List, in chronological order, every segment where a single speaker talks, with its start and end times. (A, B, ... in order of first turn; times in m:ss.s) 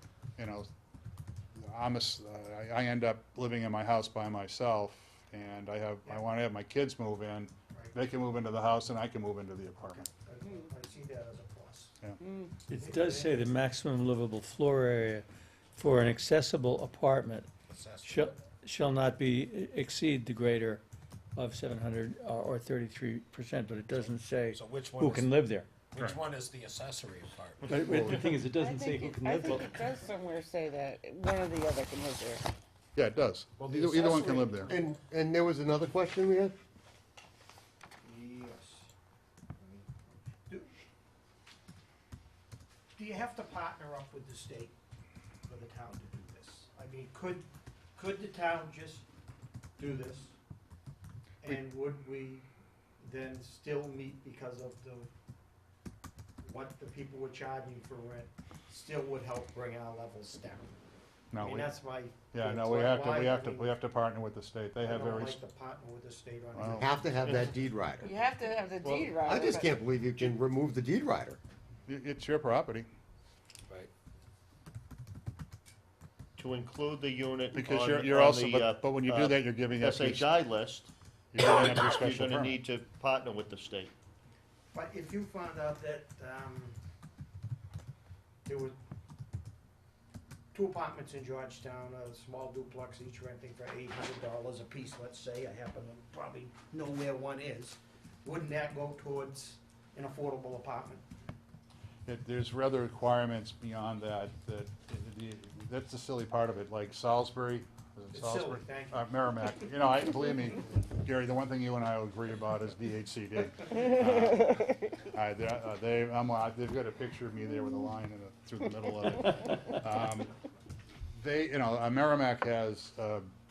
0:00.4-0:00.7 A
0:01.6-0:10.1 A
0:09.8-0:12.0 B
0:12.2-0:12.5 C
0:12.7-0:17.5 D
0:12.7-0:13.4 B
0:17.6-0:18.4 E
0:18.0-0:20.8 D
0:21.3-0:25.7 D
0:24.5-0:28.3 E
0:27.6-0:29.8 D
0:27.8-0:28.2 F
0:28.5-0:32.4 C
0:33.0-0:34.7 A
0:33.6-0:34.4 E
0:33.9-0:34.4 B
0:34.1-0:36.5 F
0:38.0-0:38.9 B
0:39.6-0:40.7 B
0:43.0-0:44.7 B
0:45.4-0:49.0 B
0:49.8-0:50.3 B
0:51.4-0:52.4 B
0:53.0-0:55.1 B
0:56.4-1:00.7 B
1:01.3-1:01.7 A
1:01.4-1:03.7 B
1:02.3-1:05.4 A
1:04.8-1:07.4 B
1:06.5-1:06.9 A
1:06.8-1:08.1 F
1:08.0-1:09.8 C
1:09.2-1:11.4 F
1:11.9-1:12.9 A
1:16.4-1:23.9 G
1:17.5-1:20.4 A
1:21.3-1:22.6 A
1:24.7-1:26.8 B
1:28.4-1:28.7 B
1:30.5-1:41.0 B
1:42.0-2:00.3 A
1:48.1-1:49.0 B
2:01.1-2:03.3 A